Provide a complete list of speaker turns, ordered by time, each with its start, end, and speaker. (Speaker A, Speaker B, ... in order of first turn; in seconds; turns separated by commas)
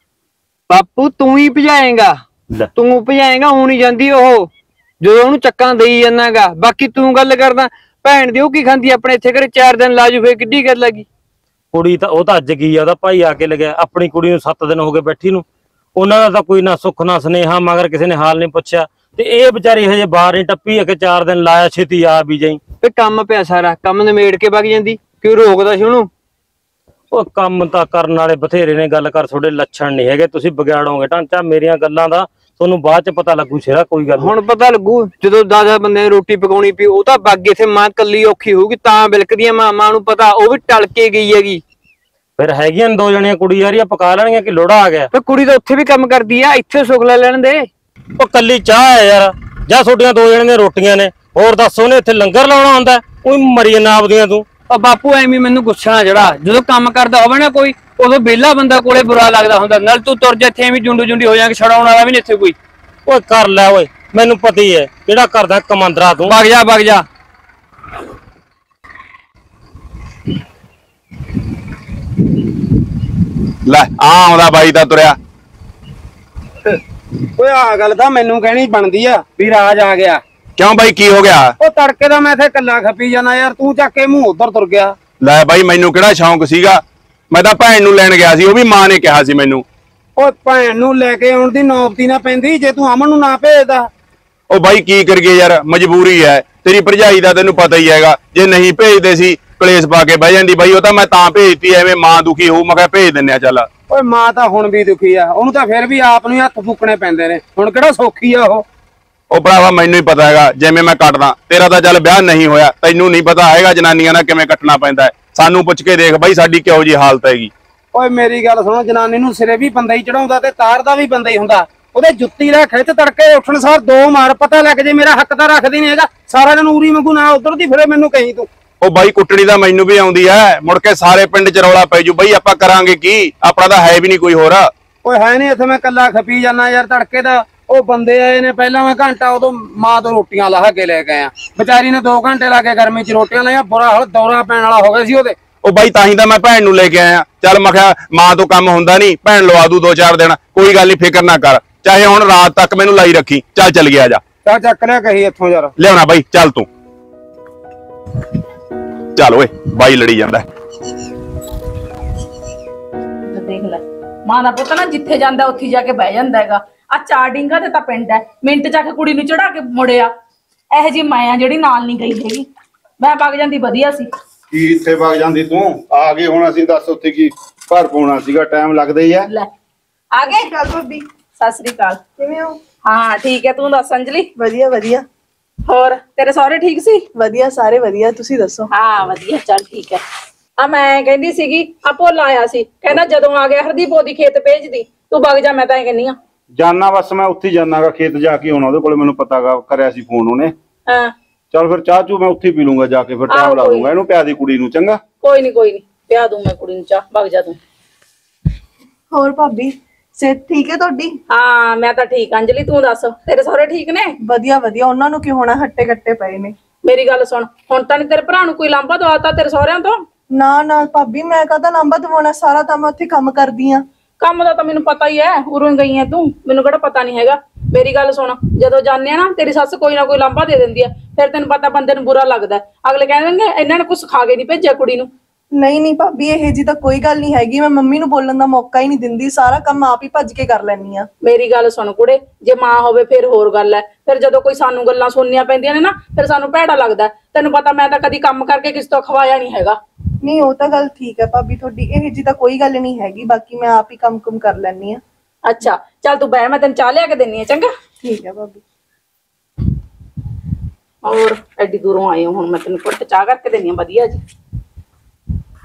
Speaker A: 0.7-2.2, Speaker A: 2.8-4.5, Speaker A: 5.0-11.1, Speaker B: 11.7-15.4, Speaker B: 15.9-22.6, Speaker A: 22.8-26.1, Speaker B: 27.1-34.3, Speaker A: 34.2-41.6, Speaker B: 42.4-45.1, Speaker A: 45.1-47.7, Speaker B: 48.2-54.5, Speaker A: 54.7-62.5, Speaker B: 63.0-66.3, Speaker A: 66.3-67.0, Speaker C: 73.6-75.2, Speaker D: 77.4-80.2, Speaker C: 80.6-81.5, Speaker D: 81.6-84.9, Speaker C: 85.2-89.6, Speaker D: 90.2-93.9, Speaker C: 94.5-103.7, Speaker D: 103.9-108.6, Speaker C: 109.3-117.5, Speaker D: 117.9-128.5, Speaker C: 128.8-134.7, Speaker D: 135.0-145.4, Speaker C: 145.6-154.2, Speaker D: 154.4-155.7, Speaker C: 155.8-156.7, Speaker C: 159.2-160.5, Speaker E: 163.3-170.1, Speaker E: 170.7-172.4, Speaker E: 173.0-174.1, Speaker F: 174.5-179.2, Speaker E: 180.1-180.5, Speaker G: 180.2-181.0, Speaker E: 181.4-182.0, Speaker G: 182.2-182.6, Speaker E: 182.8-184.3, Speaker G: 184.4-185.1, Speaker E: 185.7-187.1, Speaker G: 187.2-188.7, Speaker E: 188.7-190.0, Speaker E: 190.6-196.2, Speaker F: 196.6-200.5, Speaker E: 200.9-201.1, Speaker F: 201.5-205.0, Speaker E: 203.3-203.9, Speaker E: 205.2-207.6, Speaker G: 209.1-211.2, Speaker E: 211.3-214.1, Speaker G: 214.2-216.5, Speaker E: 216.8-220.0, Speaker G: 220.3-223.8, Speaker E: 224.2-235.1, Speaker G: 235.6-241.1, Speaker E: 241.2-249.8, Speaker G: 250.2-255.0, Speaker E: 255.4-257.7, Speaker G: 258.0-258.6, Speaker E: 261.0-264.2